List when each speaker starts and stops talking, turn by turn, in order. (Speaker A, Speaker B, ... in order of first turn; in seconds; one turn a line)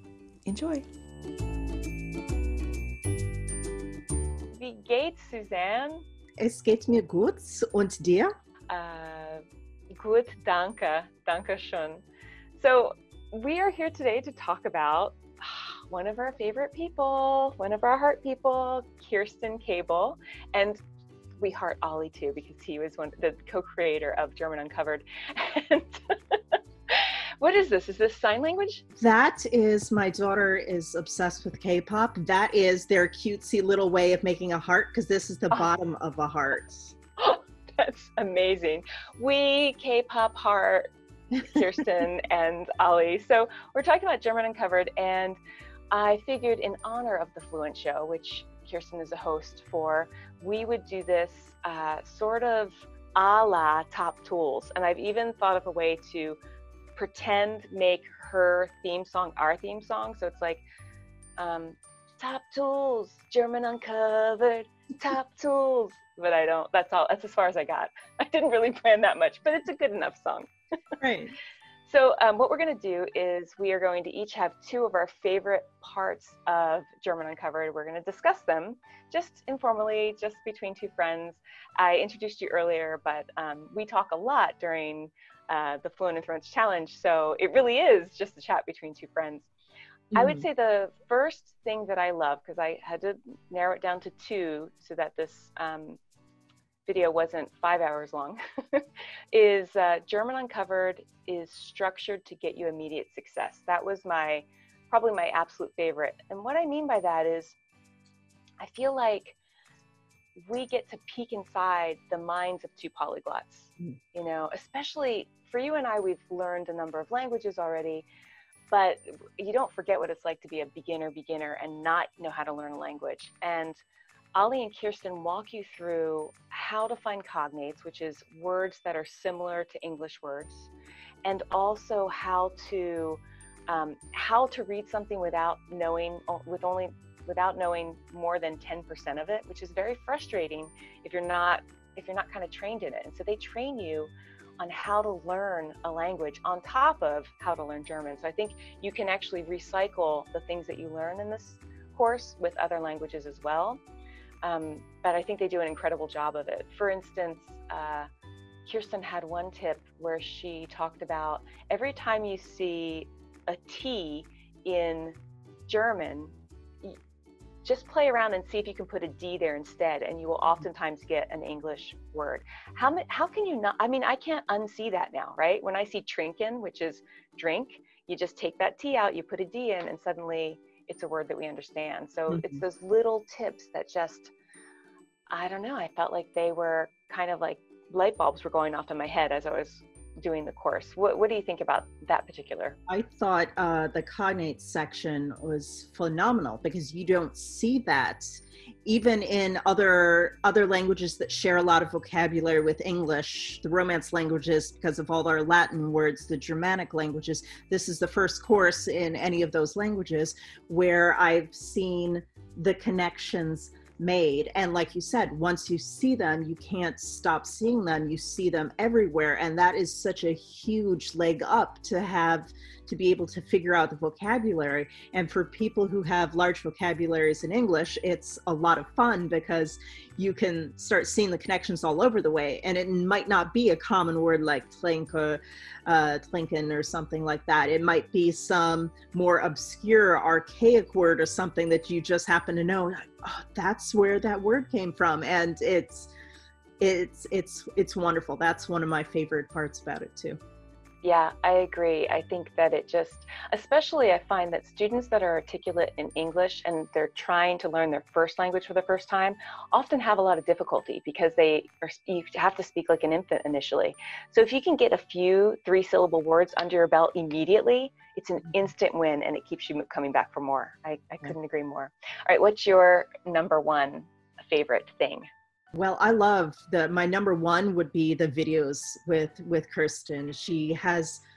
Speaker A: 0.5-0.8
Speaker A: 4.5-6.0
Speaker B: 6.4-8.3
Speaker A: 8.7-9.4
Speaker A: 10.0-12.0
Speaker A: 12.6-20.8
Speaker A: 21.4-28.8
Speaker B: 29.0-36.9
Speaker A: 37.2-45.4
Speaker A: 45.9-56.4
Speaker A: 57.0-60.6
Speaker A: 61.4-70.5
Speaker B: 71.0-71.3
Speaker A: 71.9-89.5
Speaker B: 90.1-90.5
Speaker A: 90.1-96.0
Speaker A: 96.8-107.5
Speaker A: 108.6-109.3
Speaker A: 110.5-118.0
Speaker A: 118.7-123.8
Speaker A: 124.3-130.7
Speaker A: 131.2-153.8
Speaker A: 154.4-158.1
Speaker A: 158.7-165.2
Speaker A: 165.7-167.0
Speaker A: 167.6-184.3
Speaker B: 182.3-182.6
Speaker A: 185.3-192.8
Speaker B: 192.9-246.1
Speaker B: 246.8-250.4
Speaker A: 251.0-275.2
Speaker B: 275.7-281.2